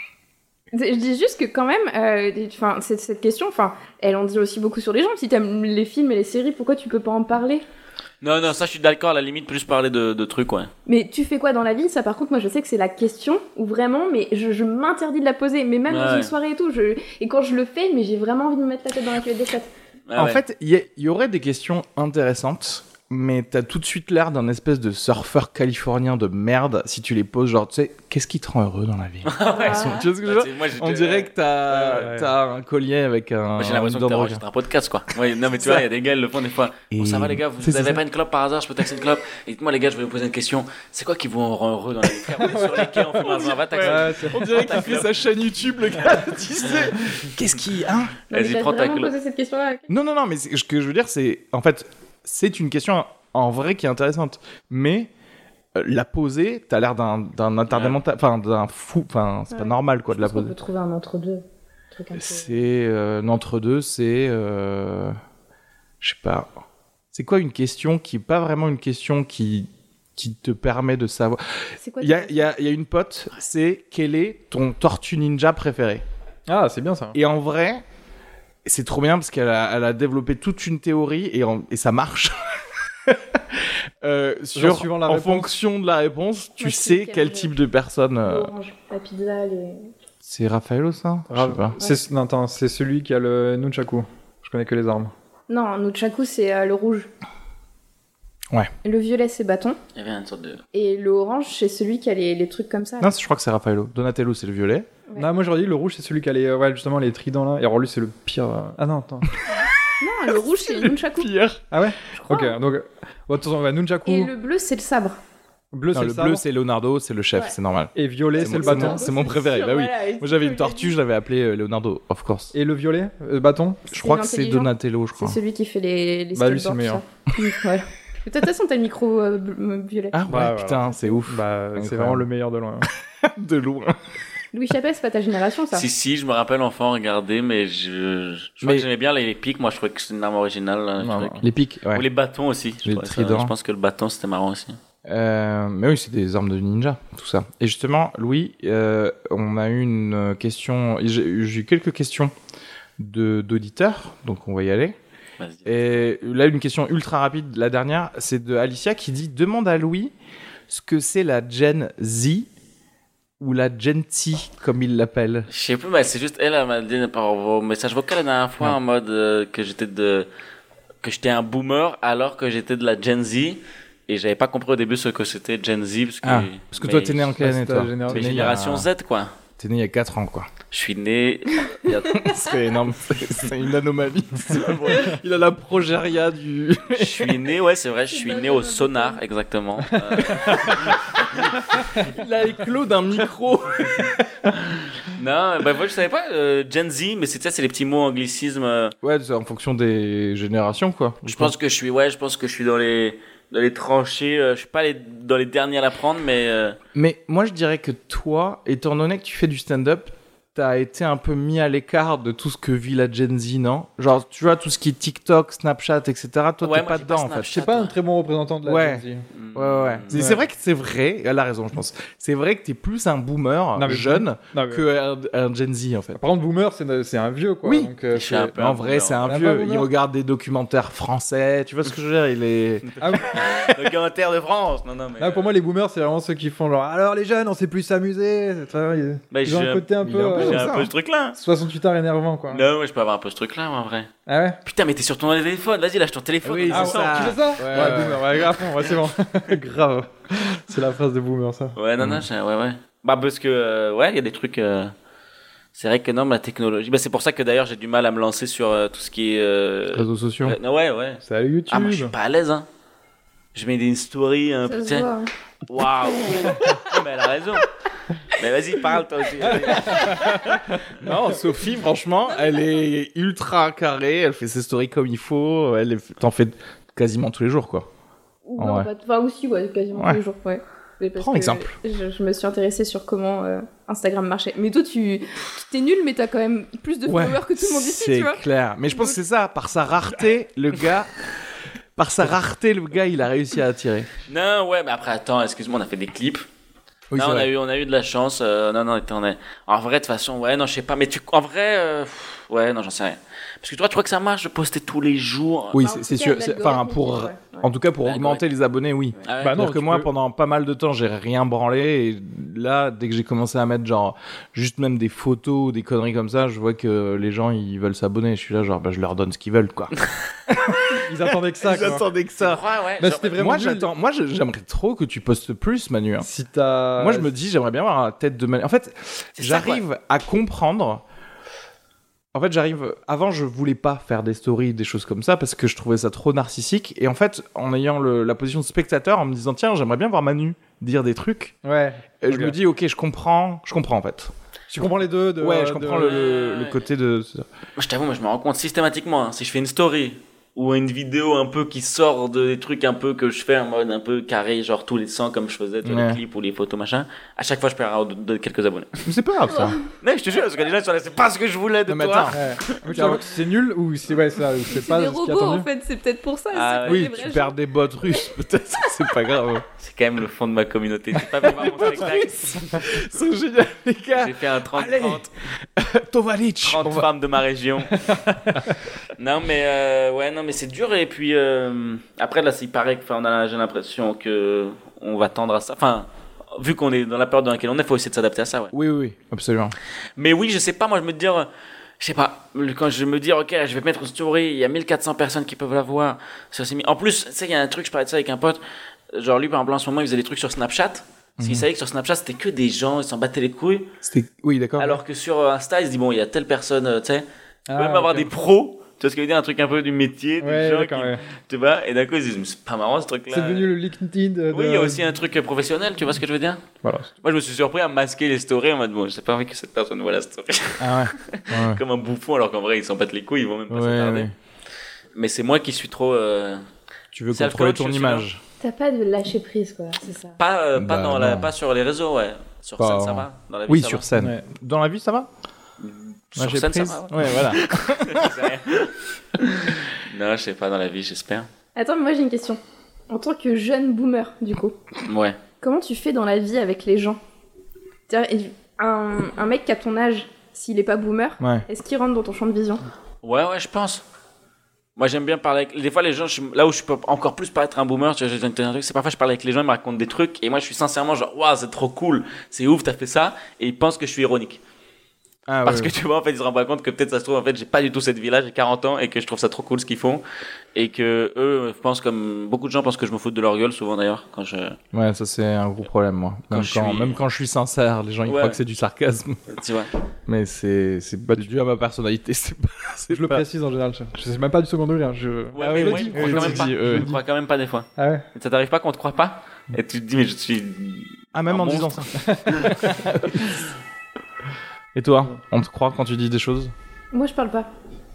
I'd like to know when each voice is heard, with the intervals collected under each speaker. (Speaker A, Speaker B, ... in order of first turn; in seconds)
Speaker A: 0.7-7.6, 10.9-19.7, 29.5-30.1, 48.3-49.9, 59.5-62.6, 71.8-72.5, 86.6-87.5, 88.2-89.9, 95.5-97.1, 98.8-99.8, 100.7-103.1, 110.0-111.3, 112.1-112.6, 114.1-115.2, 118.3-121.0, 123.9-130.2, 134.5-135.8, 188.1-189.2, 264.7-265.3, 272.3-272.7, 278.5-289.2, 305.8-307.7, 359.5-359.8, 364.7-367.6, 428.6-430.4, 441.8-444.8, 445.6-447.2, 448.1-452.8, 497.1-497.7
Speaker B: 8.2-10.7, 15.9-16.3, 20.1-20.4, 29.2-31.3, 33.6-45.1, 48.3-49.1, 57.7-58.0, 100.0-100.6, 135.7-144.8, 155.4-156.1, 165.5-170.3, 171.0-177.3, 178.1-179.3, 180.7-182.2, 184.5-185.1, 186.9-191.6, 195.1-198.9, 201.2-206.8, 216.6-218.0, 219.3-220.3, 228.1-229.3, 233.1-235.5, 239.3-241.4, 242.5-244.1, 244.6-248.1, 251.8-254.9, 255.8-262.7, 263.5-265.1, 265.7-267.7, 268.3-270.6, 294.3-296.4, 297.2-305.8, 308.1-308.4, 309.2-309.7, 322.4-323.4, 329.4-329.8, 346.0-346.8, 347.8-359.1, 360.0-363.1, 366.5-367.4, 369.8-372.9, 374.1-375.3, 376.7-378.1, 379.2-388.7, 390.2-391.5, 392.0-398.6, 399.1-403.9, 404.8-413.7, 414.5-416.6, 417.2-424.3, 425.1-426.6, 427.3-428.3, 430.4-434.1, 435.8-441.5, 445.1-445.4, 453.2-454.0, 454.9-464.6, 465.6-470.2, 470.7-474.8, 476.5-477.2, 478.3-478.6, 479.5-479.9, 485.5-492.1
Speaker C: 20.2-34.4, 35.6-35.9, 36.9-38.0, 43.4-48.2, 49.9-55.1, 55.8-60.5, 62.1-65.2, 66.0-66.5, 67.1-76.0, 77.1-77.8, 78.7-88.5, 90.2-91.8, 103.0-104.9, 109.5-109.9, 110.4-111.6, 115.9-122.5, 123.9-125.4, 130.1-132.3, 133.2-134.0, 141.4-142.1, 142.8-143.5, 145.1-152.3, 153.0-155.0, 155.7-160.1, 160.7-162.5, 163.4-165.5, 176.2-178.9, 179.6-180.5, 182.1-187.4, 192.0-194.1, 199.0-201.5, 206.9-217.6, 218.6-226.2, 227.6-227.9, 228.6-232.9, 240.0-240.9, 246.4-248.2, 259.9-260.6, 270.9-277.9, 278.6-278.9, 281.2-281.8, 287.1-291.1, 292.0-294.1, 297.1-297.5, 305.7-319.9, 320.5-322.6, 323.4-326.3, 327.0-331.0, 332.3-341.6, 342.2-344.3, 345.4-347.5, 355.8-356.2, 359.1-359.8, 361.9-363.2, 366.9-369.6, 371.4-377.1, 388.7-389.8, 401.4-401.7, 404.0-405.0, 420.8-421.8, 423.7-424.3, 427.1-428.4, 430.8-431.5, 432.8-435.3, 436.4-438.4, 451.4-451.6, 465.5-465.9, 474.9-479.4, 480.3-483.4, 485.6-487.1, 491.3-493.6, 494.9-496.7
Speaker D: 31.7-32.3, 42.4-44.8, 76.5-77.2, 84.6-85.5, 91.3-95.1, 105.2-109.3, 111.7-114.3, 115.7-116.4, 118.0-119.0, 122.5-123.8, 126.3-127.0, 130.3-132.9, 141.0-141.5, 177.4-178.5, 190.3-190.7, 217.5-219.2, 220.1-220.4, 223.8-224.8, 226.2-228.6, 229.2-229.9, 233.0-233.5, 235.2-240.7, 241.3-242.6, 244.3-244.6, 246.7-251.8, 261.2-262.1, 269.5-270.4, 309.4-310.1, 321.0-322.1, 323.0-323.9, 326.2-327.3, 341.6-342.6, 344.7-346.2, 362.3-365.7, 407.7-408.3, 410.4-411.2, 413.3-415.0, 416.8-417.1, 434.2-434.4, 483.1-487.2, 488.0-488.2, 492.2-492.9